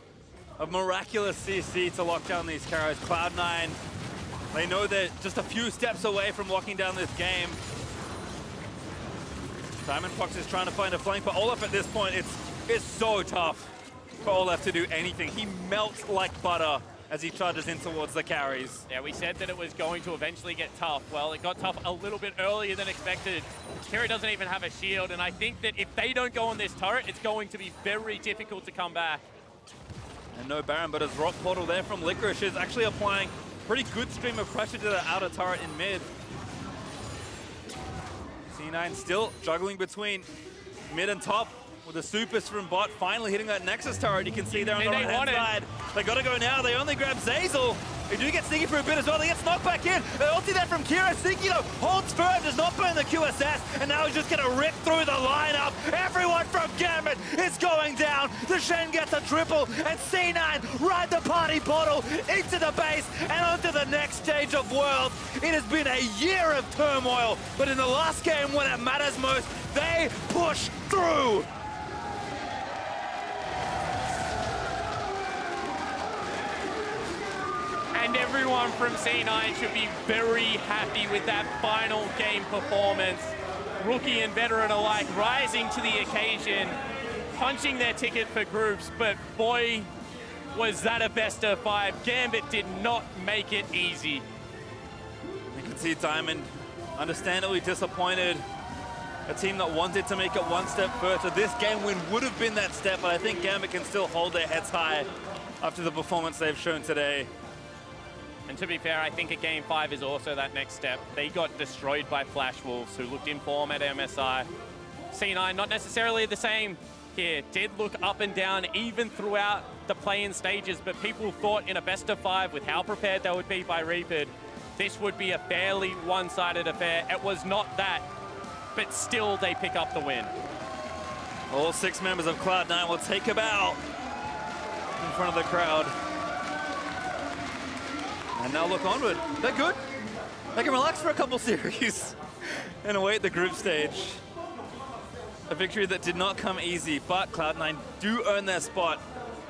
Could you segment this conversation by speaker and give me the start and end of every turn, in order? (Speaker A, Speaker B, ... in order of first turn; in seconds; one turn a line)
Speaker A: 0.6-3.8
Speaker A: 4.5-7.6
Speaker A: 9.8-18.9
Speaker B: 18.9-29.2
Speaker A: 30.3-36.1
Speaker A: 38.5-40.3
Speaker A: 40.9-71.5
Speaker B: 44.5-45.5
Speaker B: 77.9-86.8
Speaker B: 87.3-89.9
Speaker B: 90.5-94.2
Speaker A: 95.5-98.5
Speaker A: 99.3-105.1
Speaker A: 105.6-107.3
Speaker B: 108.5-114.5
Speaker B: 115.1-128.1
Speaker B: 128.8-130.3
Speaker A: 131.5-133.8
Speaker A: 135.0-135.9
Speaker A: 138.4-139.8
Speaker A: 140.6-144.2
Speaker A: 145.5-149.0